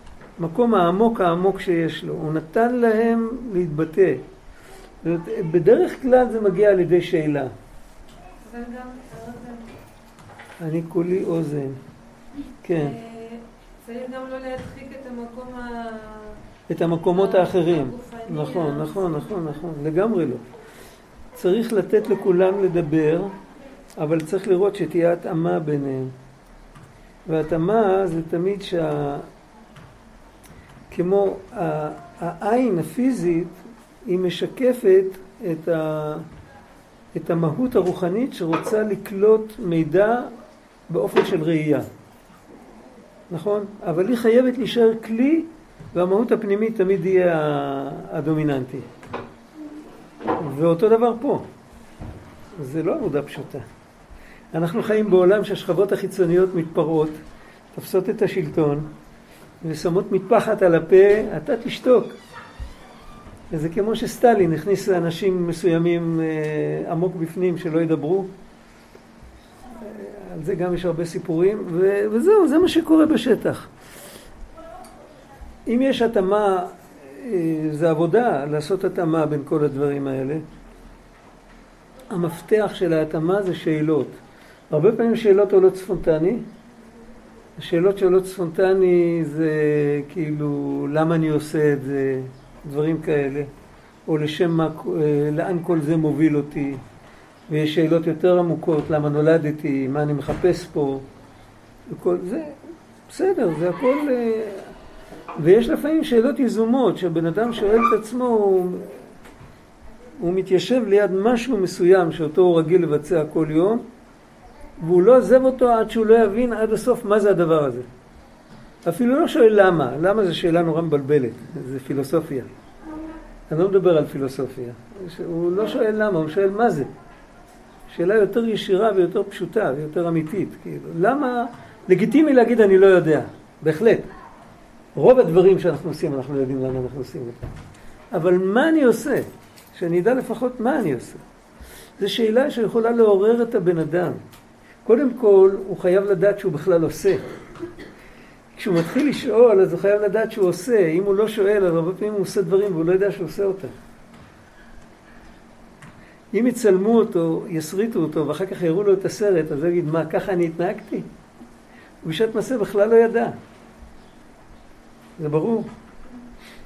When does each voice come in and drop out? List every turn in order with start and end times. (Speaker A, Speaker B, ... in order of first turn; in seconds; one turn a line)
Speaker A: 0.4-4.2
Speaker A: 5.0-7.5
Speaker B: 8.4-9.7
Speaker A: 10.6-11.8
Speaker A: 12.6-12.9
Speaker B: 12.8-16.4
Speaker A: 16.7-20.4
Speaker B: 17.1-19.6
Speaker A: 21.4-23.3
Speaker A: 24.0-26.1
Speaker A: 27.3-29.3
Speaker A: 30.9-36.2
Speaker A: 37.1-40.3
Speaker A: 40.9-41.9
Speaker A: 43.3-48.9
Speaker A: 50.4-51.4
Speaker A: 52.6-53.6
Speaker A: 54.5-57.2
Speaker A: 57.7-58.9
Speaker A: 59.6-62.1
Speaker A: 63.5-68.3
Speaker A: 69.8-73.7
Speaker A: 75.7-80.4
Speaker A: 82.1-84.2
Speaker A: 84.7-86.4
Speaker A: 87.6-93.5
Speaker A: 94.1-96.8
Speaker A: 97.5-101.0
Speaker A: 101.9-102.5
Speaker A: 103.1-104.7
Speaker A: 105.4-109.0
Speaker A: 110.2-113.8
Speaker A: 114.8-117.9
Speaker A: 118.8-122.5
Speaker A: 123.5-126.9
Speaker A: 127.9-134.1
Speaker A: 134.9-137.4
Speaker A: 138.1-141.2
Speaker A: 142.0-144.2
Speaker A: 144.8-147.2
Speaker A: 148.6-153.7
Speaker A: 156.3-161.1
Speaker A: 162.0-163.4
Speaker A: 165.2-165.7